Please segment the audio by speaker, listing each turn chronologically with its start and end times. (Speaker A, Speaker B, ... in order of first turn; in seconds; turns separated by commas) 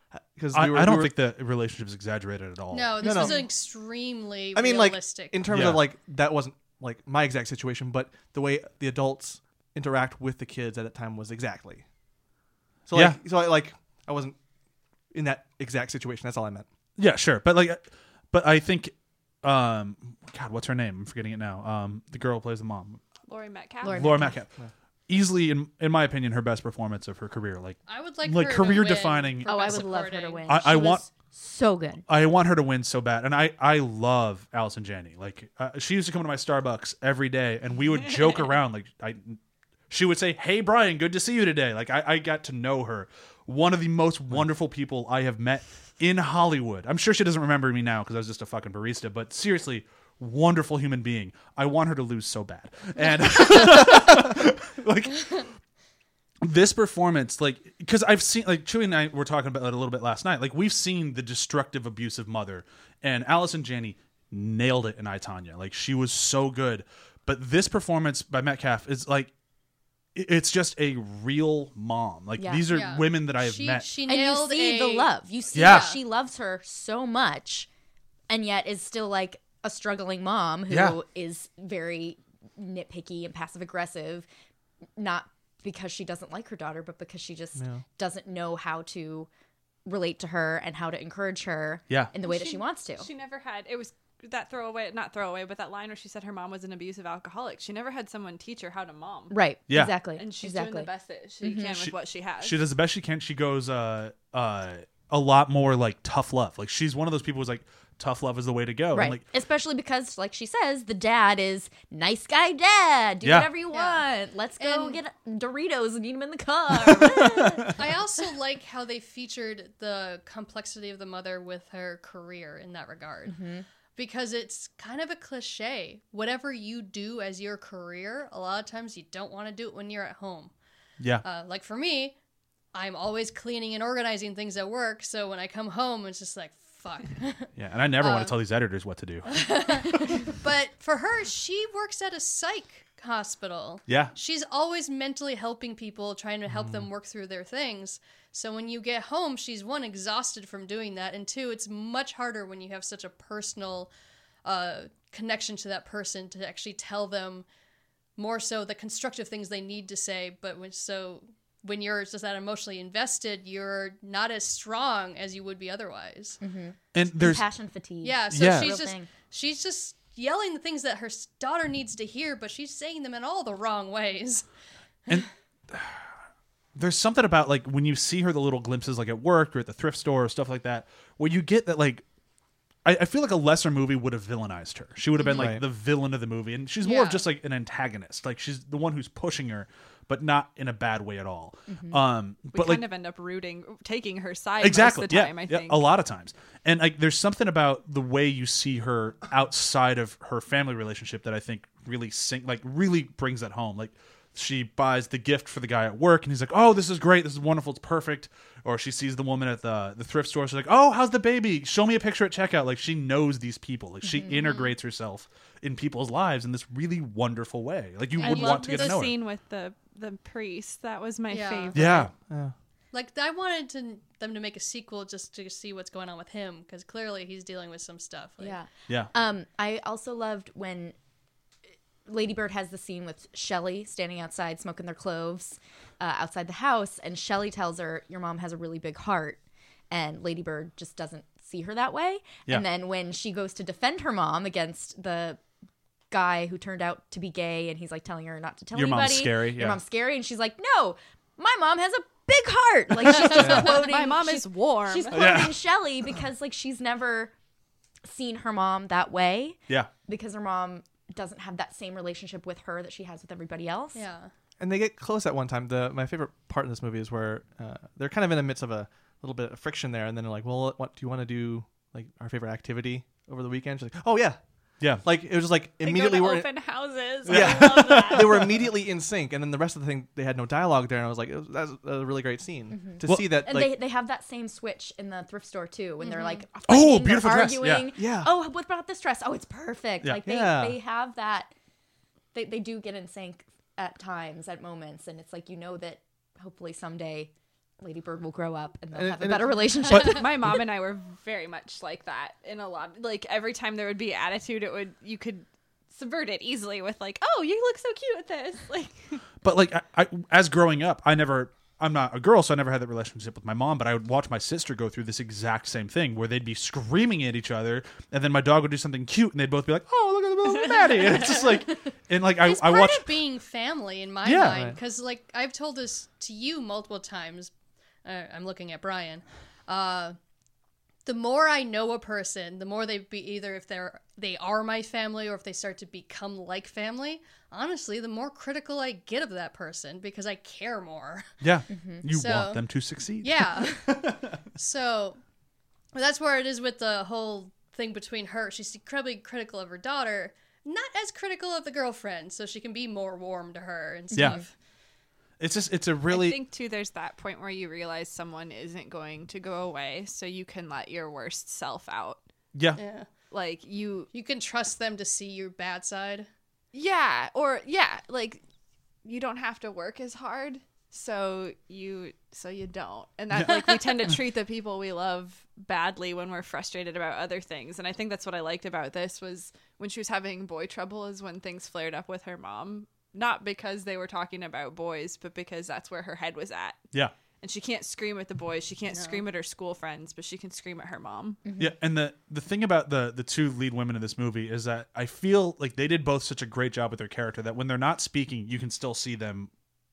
Speaker A: 0.1-1.1, Speaker B: 0.5-3.4, Speaker C: 2.7-5.5, Speaker A: 3.0-3.5, Speaker A: 4.5-11.8, Speaker B: 5.5-5.8, Speaker A: 12.9-14.4, Speaker B: 12.9-13.2, Speaker A: 15.1-16.6, Speaker B: 17.0-17.8, Speaker B: 18.3-23.0, Speaker D: 23.3-24.1, Speaker E: 23.8-24.4, Speaker B: 23.9-24.5, Speaker B: 25.1-29.9, Speaker C: 27.9-30.5, Speaker E: 29.4-32.0, Speaker B: 30.5-31.1, Speaker B: 32.1-39.4, Speaker B: 39.9-55.5, Speaker B: 56.4-69.3, Speaker B: 70.1-73.9, Speaker E: 72.4-72.6, Speaker C: 72.7-76.0, Speaker E: 74.1-77.7, Speaker B: 75.5-75.9, Speaker E: 78.3-84.3, Speaker B: 80.7-81.0, Speaker E: 85.0-89.3, Speaker A: 87.5-87.8, Speaker E: 89.8-93.1, Speaker D: 92.2-99.3, Speaker E: 99.3-100.9, Speaker B: 99.7-100.0, Speaker D: 100.2-102.6, Speaker E: 101.4-101.8, Speaker B: 101.8-109.2, Speaker E: 108.9-117.8, Speaker B: 113.2-113.5, Speaker C: 113.7-114.0, Speaker C: 114.6-115.0, Speaker B: 116.8-117.7, Speaker C: 117.7-123.4, Speaker E: 123.3-123.6, Speaker C: 124.0-130.5, Speaker B: 131.0-131.2, Speaker C: 131.2-132.1, Speaker C: 132.7-138.3, Speaker B: 137.6-139.4, Speaker C: 139.3-153.9, Speaker B: 143.9-144.1, Speaker A: 146.5-146.8, Speaker C: 154.4-157.4, Speaker C: 158.2-166.4, Speaker E: 166.4-169.1, Speaker B: 166.9-167.4, Speaker C: 168.0-174.4, Speaker B: 168.3-168.8, Speaker B: 175.1-176.1, Speaker B: 176.8-182.0, Speaker B: 182.8-192.8, Speaker C: 185.2-185.5, Speaker A: 185.3-185.6, Speaker C: 186.8-187.2, Speaker E: 191.7-192.0, Speaker D: 192.5-195.9, Speaker B: 194.6-219.2, Speaker C: 218.2-219.0, Speaker D: 218.2-222.1, Speaker C: 221.3-221.9, Speaker B: 221.7-222.1, Speaker A: 222.2-222.5, Speaker C: 222.9-228.6, Speaker E: 228.4-230.9, Speaker E: 232.1-239.4, Speaker E: 239.9-245.4, Speaker E: 246.1-257.3, Speaker B: 248.7-249.8, Speaker B: 253.3-253.6, Speaker D: 253.4-255.2, Speaker B: 255.1-255.6, Speaker E: 258.0-264.0, Speaker C: 263.9-264.3, Speaker A: 264.6-276.5, Speaker D: 275.8-278.6, Speaker A: 277.2-283.8, Speaker B: 277.2-278.3, Speaker E: 282.7-291.5, Speaker B: 283.0-283.4, Speaker B: 286.7-287.9, Speaker A: 287.9-288.3, Speaker A: 290.2-290.8, Speaker E: 292.3-300.5, Speaker A: 298.9-300.0, Speaker D: 299.9-309.2, Speaker B: 309.4-323.2, Speaker C: 322.4-327.5, Speaker B: 324.2-324.6, Speaker A: 324.4-324.8, Speaker C: 328.0-330.1, Speaker C: 331.1-341.3, Speaker B: 341.4-344.3, Speaker E: 341.7-342.0, Speaker C: 342.0-342.6, Speaker C: 343.2-345.2, Speaker C: 345.9-354.5, Speaker E: 354.2-354.4, Speaker B: 355.4-356.4, Speaker D: 356.1-362.2, Speaker B: 362.5-362.8, Speaker C: 362.8-363.1, Speaker D: 363.3-364.1, Speaker C: 364.1-366.3, Speaker D: 366.7-368.4, Speaker D: 369.0-386.8, Speaker D: 387.4-391.4, Speaker C: 388.9-389.2, Speaker E: 391.4-391.7, Speaker B: 391.6-399.5